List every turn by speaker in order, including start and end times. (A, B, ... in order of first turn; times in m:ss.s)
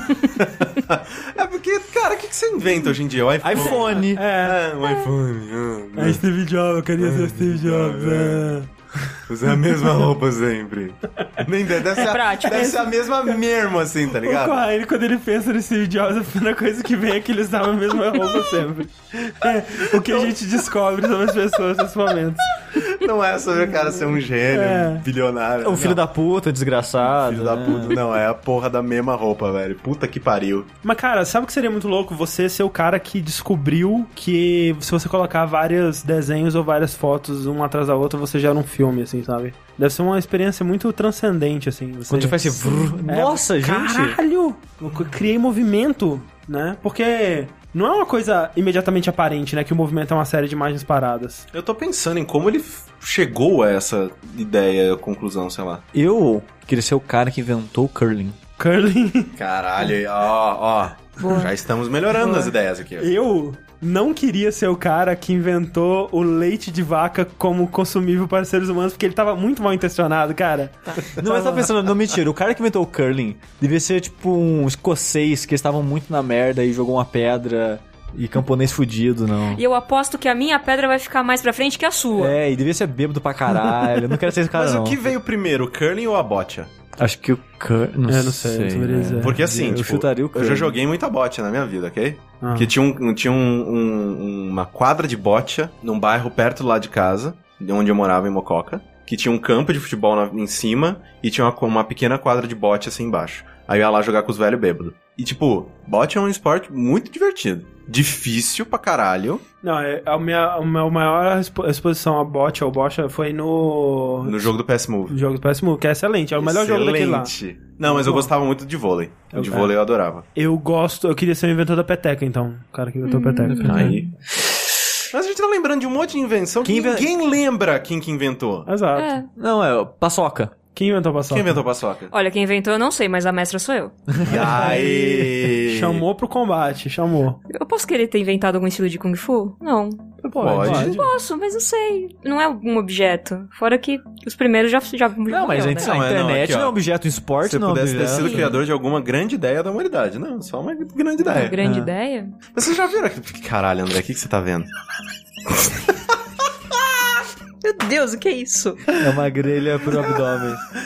0:00.3-0:06.2 A
0:03.4-0:04.2 B
0:03.6-0:04.0 C
0:04.1-0:04.6 D
0:06.0-0:09.9 D
0:07.0-0:08.6 A
0:09.3-0:14.6 A
0:12.0-0:12.8 C
0:12.5-0:13.4 D
0:14.2-0:22.6 D
0:19.9-0:20.3 A
0:22.7-0:26.0 A
0:23.7-0:25.0 D
0:25.6-0:28.0 B
0:27.1-0:30.7 A
0:30.8-0:51.5 D
0:42.1-0:44.2 B
0:51.5-0:55.8 A
0:55.9-0:58.4 B
0:58.6-0:59.9 D
0:59.4-1:03.1 A
1:01.2-1:01.5 C
1:02.1-1:11.7 D
1:11.1-1:19.6 B
1:19.5-1:22.4 C
1:22.2-1:25.0 B
1:24.5-1:26.7 A
1:27.0-1:30.8 B
1:28.1-1:29.4 D
1:29.2-1:49.4 A
1:32.4-1:32.7 D
1:49.6-1:54.5 D
1:54.2-1:55.2 A
1:55.1-1:57.3 D
1:56.4-2:00.3 A
1:57.8-1:58.3 D
1:59.3-1:59.7 D
2:00.4-2:03.8 D
2:03.0-2:04.0 C
2:03.5-2:04.1 A
2:03.6-2:04.0 B
2:05.1-2:08.7 A
2:06.6-2:07.1 B
2:08.7-2:09.2 D
2:08.9-2:09.3 C
2:09.4-2:10.5 B
2:10.7-2:11.6 D
2:11.3-2:12.1 A
2:12.1-2:14.0 C
2:14.1-2:14.8 B
2:14.3-2:16.0 A
2:14.3-2:17.4 D
2:17.5-2:20.2 C
2:20.2-2:21.0 A
2:20.4-2:21.0 B
2:20.6-2:21.0 D
2:20.7-2:26.0 C
2:25.3-2:28.6 B
2:25.8-2:26.8 A
2:27.4-2:31.6 A
2:28.1-2:28.6 C
2:31.2-2:32.4 C
2:31.6-2:31.9 B
2:32.5-2:34.7 A
2:35.6-2:35.9 A
2:37.6-2:38.9 C
2:39.0-2:40.6 B